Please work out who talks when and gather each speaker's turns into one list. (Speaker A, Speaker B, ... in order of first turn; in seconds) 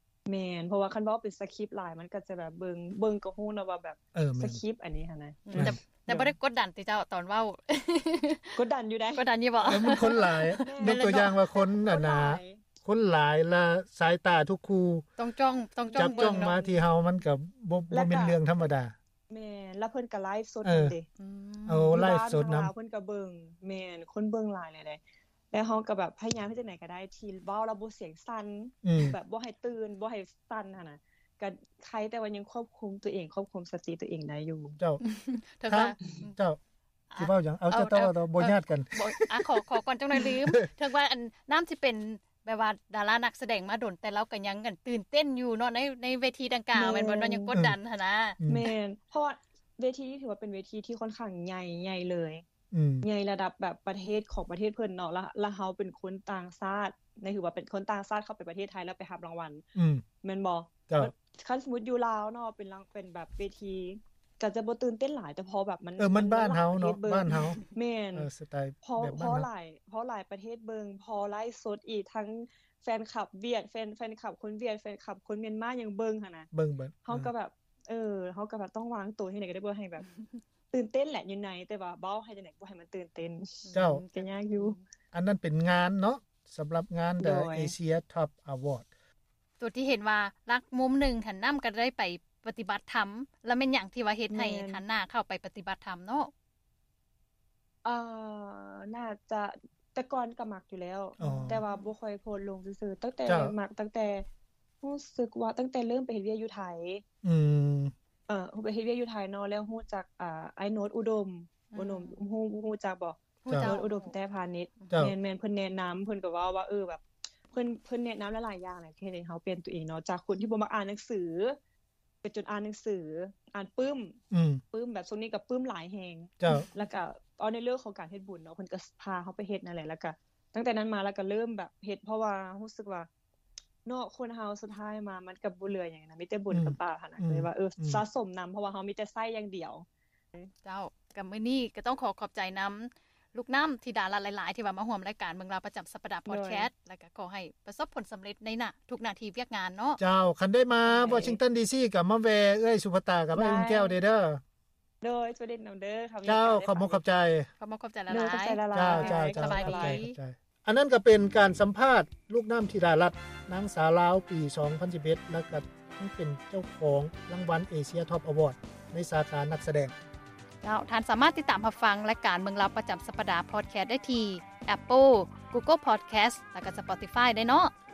Speaker A: 0.3-6.3, 8.5-12.6, 15.9-16.8, 17.9-18.4, 19.3-21.1, 21.9-25.0, 25.5-34.8, 46.7-47.5, 48.5-52.4, 53.0-59.6, 60.2-68.3, 68.8-76.5, 77.0-80.1, 80.7-84.8, 87.2-87.7, 94.3-94.8, 97.8-104.2, 104.8-107.0, 108.3-121.6, 122.2-124.2, 124.7-133.1, 133.8-139.8, 146.3-146.7, 150.8-151.4, 153.3-154.0, 155.0-157.0, 158.1-160.0
Speaker B: 4.1-4.6, 5.5-6.3, 9.7-15.0, 16.0-18.9, 20.6-20.9, 21.6-22.7, 28.8-29.1, 35.7-36.6, 37.2-38.9, 40.2-40.5, 52.7-53.1, 59.8-60.0, 66.0-67.6, 68.1-69.5, 76.5-77.3, 83.7-84.0, 85.1-88.9, 101.2-101.6, 103.2-103.5, 107.2-107.9, 113.5-113.8, 124.3-124.6, 136.5-138.0, 150.0-154.4, 156.2-157.5, 158.7-169.9
Speaker C: 5.5-8.6, 9.1-11.4, 15.2-16.6, 21.2-22.0, 35.0-36.4, 37.1-48.4, 83.6-84.8, 89.6-96.3, 101.2-101.9, 111.7-112.2, 113.4-114.1, 140.6-150.0, 157.6-160.2, 170.6-177.7